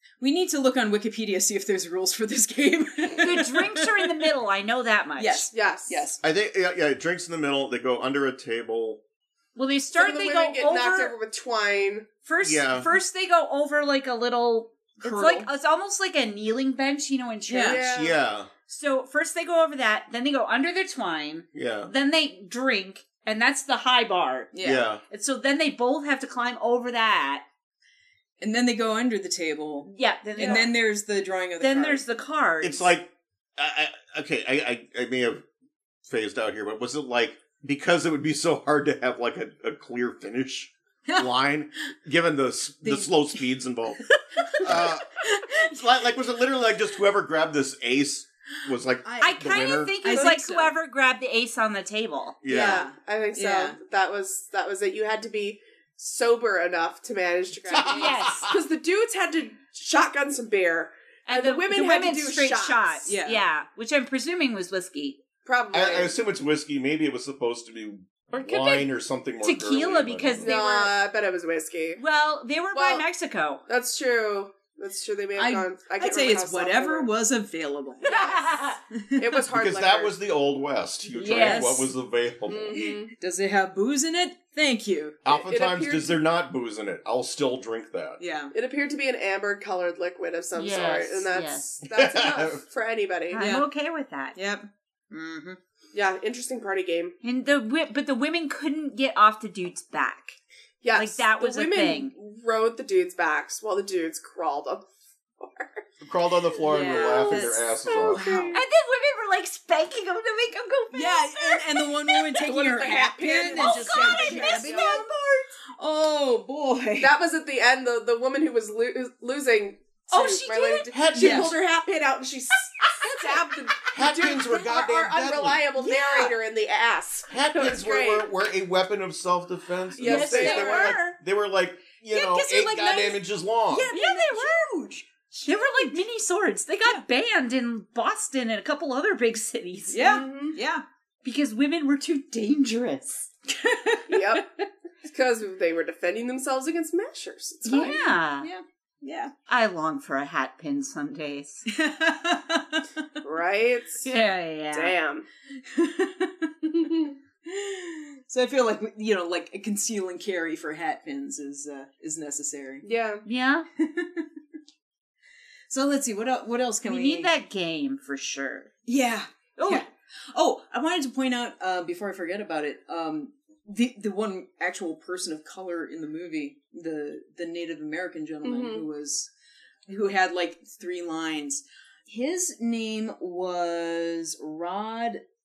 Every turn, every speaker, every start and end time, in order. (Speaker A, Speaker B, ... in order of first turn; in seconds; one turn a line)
Speaker A: 0.2-4.3
Speaker B: 3.2-5.5
Speaker A: 5.2-6.2
Speaker C: 5.5-6.1
Speaker D: 6.2-9.0
Speaker B: 9.6-11.1
Speaker C: 9.9-12.1
Speaker B: 12.3-17.8
Speaker D: 12.4-12.9
Speaker A: 15.0-15.5
Speaker A: 17.5-17.8
Speaker C: 17.6-18.2
Speaker D: 17.9-18.5
Speaker B: 18.7-24.5
Speaker D: 21.5-21.9
Speaker A: 24.5-24.9
Speaker D: 24.6-25.0
Speaker B: 25.1-27.4
Speaker A: 28.4-32.0
Speaker B: 29.9-30.7
Speaker C: 30.4-30.7
Speaker B: 31.6-32.9
Speaker D: 32.6-35.4
Speaker D: 36.0-44.0
Speaker A: 42.8-43.4
Speaker A: 44.4-45.8
Speaker D: 44.6-50.0
Speaker A: 49.0-50.8
Speaker B: 49.2-52.4
Speaker D: 52.4-52.9
Speaker A: 52.5-53.8
Speaker C: 52.5-63.0
Speaker D: 57.7-58.6
Speaker B: 57.9-58.5
Speaker B: 61.3-65.2
Speaker A: 63.1-63.4
Speaker C: 65.5-66.2
Speaker D: 65.7-70.6
Speaker B: 68.4-68.8
Speaker B: 69.4-70.9
Speaker C: 70.4-72.0
Speaker B: 72.0-73.6
Speaker C: 72.7-73.0
Speaker C: 73.7-77.1
Speaker A: 75.4-78.4
Speaker C: 78.0-78.5
Speaker B: 78.0-78.8
Speaker A: 78.9-79.4
Speaker C: 79.2-80.1
Speaker D: 79.5-82.8
Speaker A: 81.2-81.9
Speaker B: 81.2-81.8
Speaker C: 82.5-83.1
Speaker A: 82.8-85.2
Speaker D: 85.2-88.2
Speaker C: 85.3-86.2
Speaker A: 88.2-88.5
Speaker C: 88.5-93.4
Speaker B: 90.6-91.7
Speaker D: 91.8-92.6
Speaker B: 93.3-94.4
Speaker A: 93.4-93.7
Speaker A: 94.3-95.6
Speaker C: 95.9-97.1
Speaker B: 97.2-100.4
Speaker C: 100.8-104.9
Speaker B: 101.0-102.1
Speaker C: 105.4-105.8
Speaker D: 106.0-108.5
Speaker A: 106.7-108.6
Speaker C: 106.8-108.6
Speaker B: 108.5-112.4
Speaker A: 110.9-115.2
Speaker C: 112.4-115.0
Speaker B: 113.5-115.4
Speaker A: 115.8-117.1
Speaker C: 117.0-128.3
Speaker B: 120.1-120.9
Speaker D: 120.9-121.6
Speaker A: 121.2-121.5
Speaker D: 123.9-125.7
Speaker A: 125.8-126.3
Speaker D: 127.3-133.9
Speaker C: 130.0-131.0
Speaker B: 130.0-131.2
Speaker A: 132.1-133.2
Speaker A: 133.7-136.0
Speaker B: 133.9-134.6
Speaker B: 135.4-140.2
Speaker A: 139.9-140.8
Speaker C: 140.0-140.6
Speaker B: 141.2-143.3
Speaker A: 143.5-144.4
Speaker C: 144.1-144.5
Speaker C: 145.1-148.0
Speaker A: 147.7-149.3
Speaker B: 147.7-148.5
Speaker B: 149.5-151.7
Speaker A: 151.7-153.1
Speaker C: 153.2-154.1
Speaker B: 154.0-154.9
Speaker C: 154.7-155.3
Speaker A: 155.6-156.7
Speaker C: 156.7-157.1
Speaker A: 157.4-162.9
Speaker C: 162.8-163.2
Speaker B: 163.2-163.7
Speaker A: 163.8-164.3
Speaker A: 165.7-167.3
Speaker B: 166.8-168.7
Speaker A: 168.9-179.3
Speaker B: 169.6-169.8
Speaker C: 178.4-178.8
Speaker A: 179.9-185.2